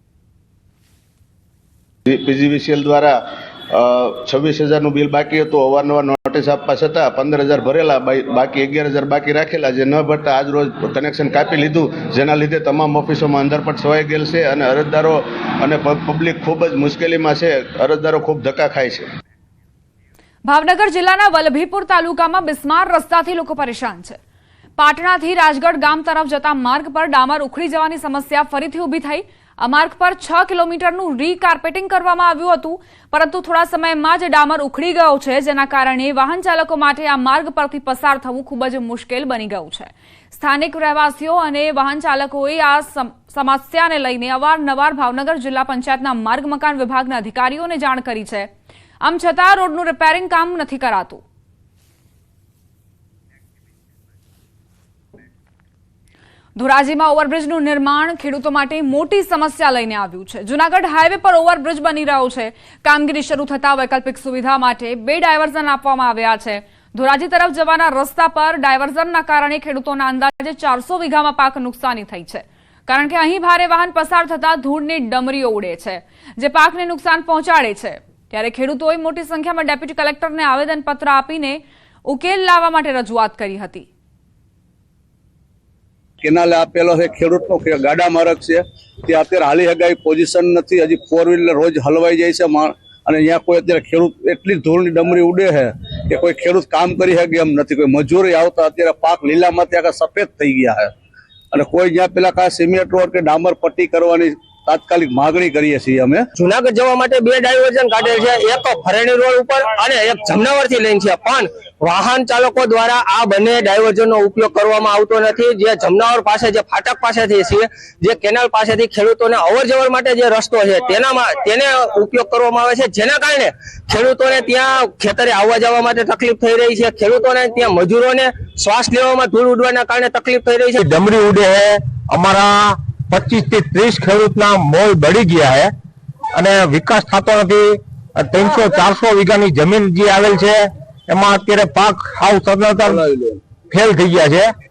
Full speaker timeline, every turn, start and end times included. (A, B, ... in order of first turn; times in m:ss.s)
0:02.0-0:03.2 A
0:03.7-0:19.0 A
0:20.4-0:24.2 B
0:24.8-0:48.5 B
0:49.0-0:51.2 B
0:56.6-1:23.9 B
1:26.2-1:40.9 C
1:41.5-1:46.2 C
1:46.4-2:10.8 D
2:10.8-2:15.7 E
2:16.3-2:23.0 E
2:22.8-2:23.4 C
2:23.7-2:24.5 E